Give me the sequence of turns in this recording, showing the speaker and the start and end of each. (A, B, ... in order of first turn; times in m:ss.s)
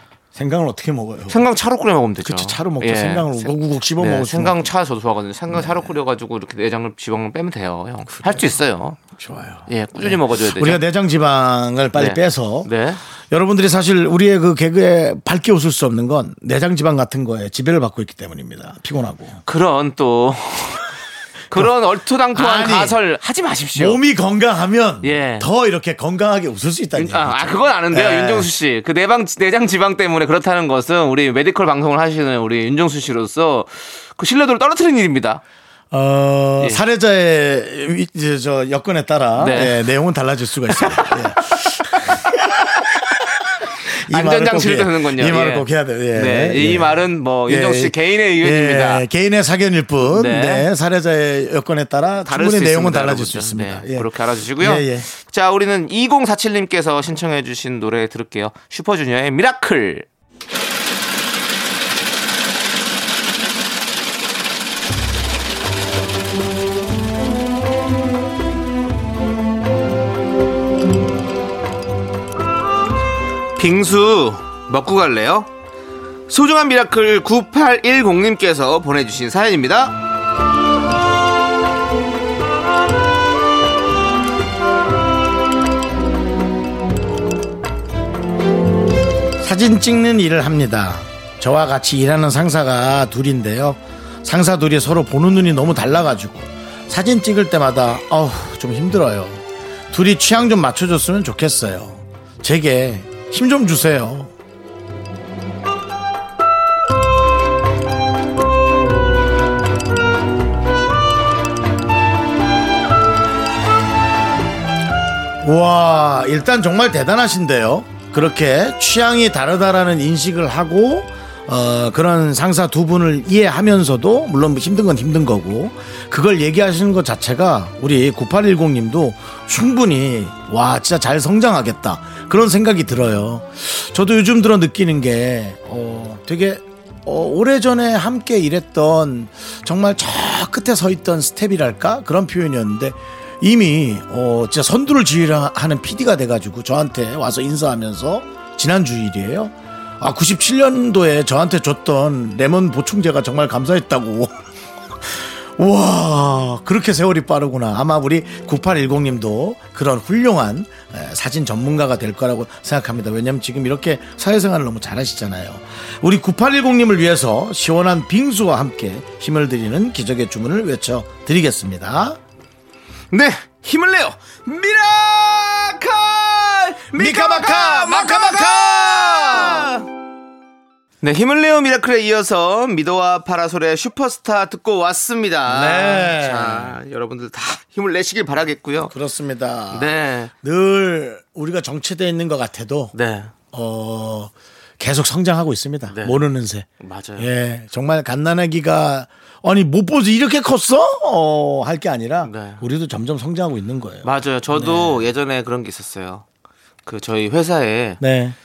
0:00.3-0:01.4 A
0:01.3-0:09.0 B
0:02.2-0:04.7 A
0:05.5-0:05.9 A
0:08.1-0:08.5 A
0:09.2-0:12.7 A
0:09.7-0:10.8 B
0:11.9-0:13.0 B
0:13.3-0:19.4 A
0:19.4-0:21.0 B
0:21.5-0:24.0 B
0:22.3-0:23.0 A
0:23.7-0:28.5 A
0:25.0-0:25.5 B
0:27.0-0:35.4 B
0:35.9-0:43.1 A
0:39.4-0:39.8 B
0:40.7-0:42.3 B
0:43.9-0:54.1 A
0:44.1-0:49.0 B
0:50.0-0:50.6 B
0:52.2-1:00.1 B
0:54.6-0:55.1 A
1:13.6-1:15.5 B
1:16.3-1:19.9 B
1:29.4-1:44.3 A
1:55.4-2:34.3 A
2:35.1-2:52.2 A
2:53.1-2:59.8 B
2:56.9-2:59.7 A
3:01.0-3:08.9 B
3:05.4-3:06.8 A
3:08.9-3:12.9 A
3:09.7-3:10.3 B
3:12.9-3:13.3 B
3:13.5-3:25.1 A
3:15.9-3:16.2 B
3:16.8-3:17.3 B
3:22.2-3:22.6 B
3:24.0-3:26.2 B
3:26.8-3:28.0 B
3:28.0-3:28.4 A